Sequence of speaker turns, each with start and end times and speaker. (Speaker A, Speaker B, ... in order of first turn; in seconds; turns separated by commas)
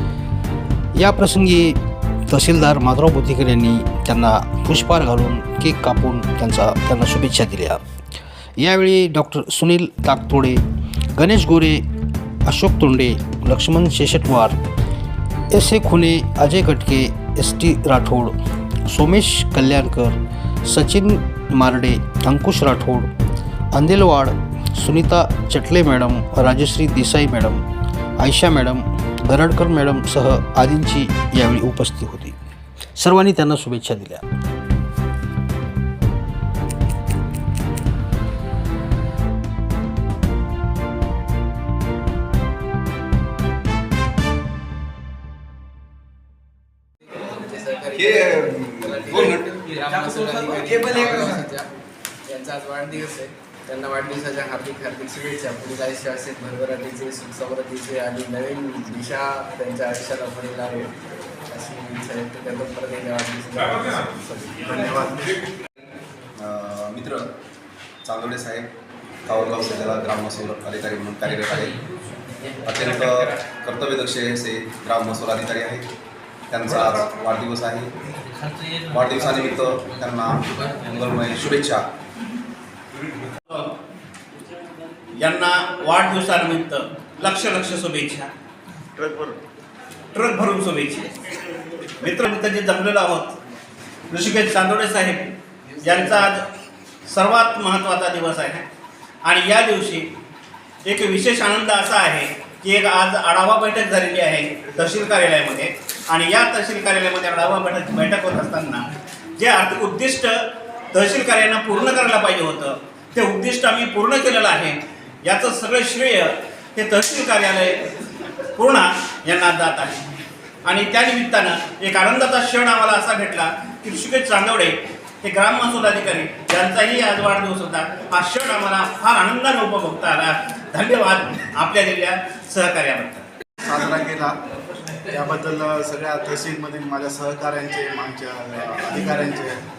Speaker A: 0.9-7.8, Speaker A: 8.6-10.6, Speaker A: 11.1-11.8, Speaker A: 12.4-14.6, Speaker A: 15.5-18.4, Speaker A: 18.9-23.1, Speaker A: 23.7-27.6, Speaker A: 28.2-32.4, Speaker A: 33.0-34.2, Speaker B: 47.1-51.7, Speaker C: 47.9-49.5, Speaker B: 52.3-60.9, Speaker B: 61.5-64.7, Speaker D: 64.6-65.5, Speaker C: 66.4-67.2, Speaker C: 68.0-68.7, Speaker C: 69.2-71.8, Speaker C: 72.6-75.8, Speaker C: 76.5-77.9, Speaker C: 78.8-81.8, Speaker E: 83.5-83.7, Speaker E: 85.2-88.3, Speaker E: 89.0-89.4, Speaker E: 90.1-91.2, Speaker E: 92.0-93.3, Speaker E: 94.1-96.5, Speaker E: 97.0-98.7, Speaker E: 99.2-100.1, Speaker E: 100.8-117.9, Speaker E: 118.5-120.0, Speaker E: 120.6-133.2, Speaker D: 133.6-134.4, Speaker D: 135.1-139.6